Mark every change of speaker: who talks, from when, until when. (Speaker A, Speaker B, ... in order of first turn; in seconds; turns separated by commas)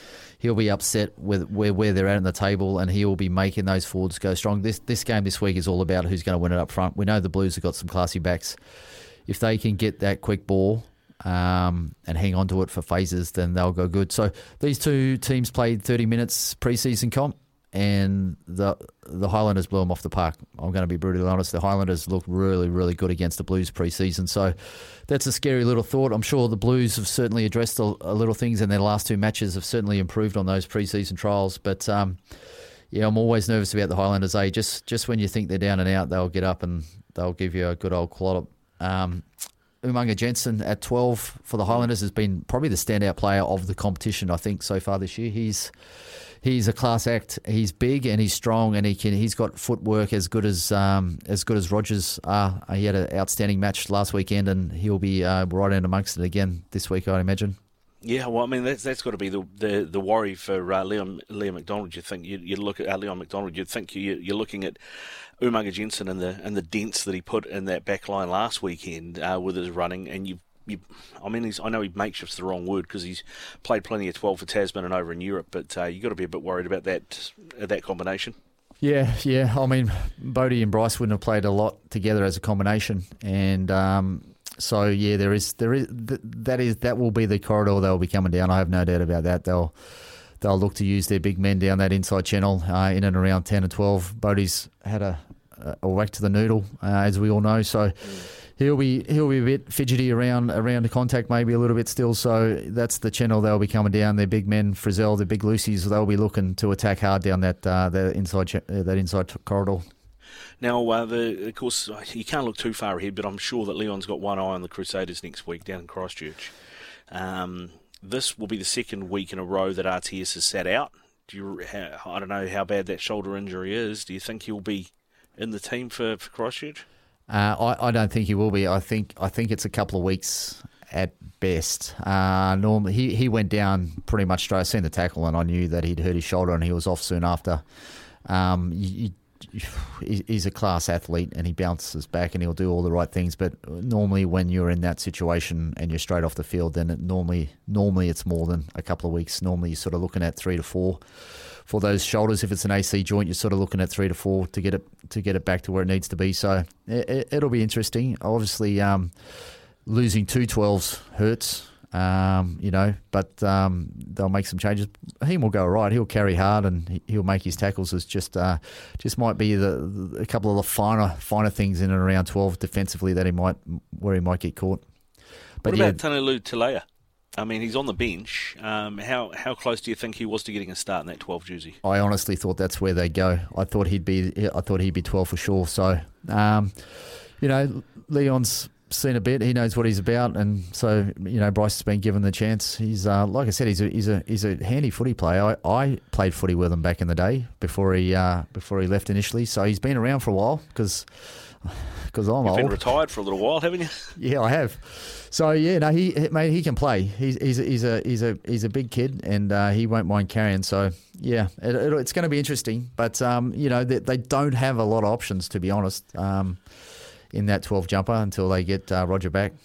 Speaker A: 0.4-8.6, Speaker A: 9.3-32.2, Speaker A: 32.9-39.2, Speaker A: 39.8-45.7, Speaker A: 46.4-57.6, Speaker B: 58.0-64.8, Speaker B: 65.4-78.3, Speaker A: 78.8-89.7, Speaker A: 90.4-109.8, Speaker B: 110.6-116.5, Speaker B: 117.1-126.8, Speaker A: 127.3-137.6, Speaker A: 138.2-151.0, Speaker A: 151.7-159.1, Speaker A: 159.8-174.8, Speaker A: 175.6-176.0, Speaker B: 175.6-176.8, Speaker B: 177.4-181.8, Speaker A: 181.8-202.8, Speaker B: 202.4-203.9, Speaker A: 204.2-216.6, Speaker A: 217.3-219.5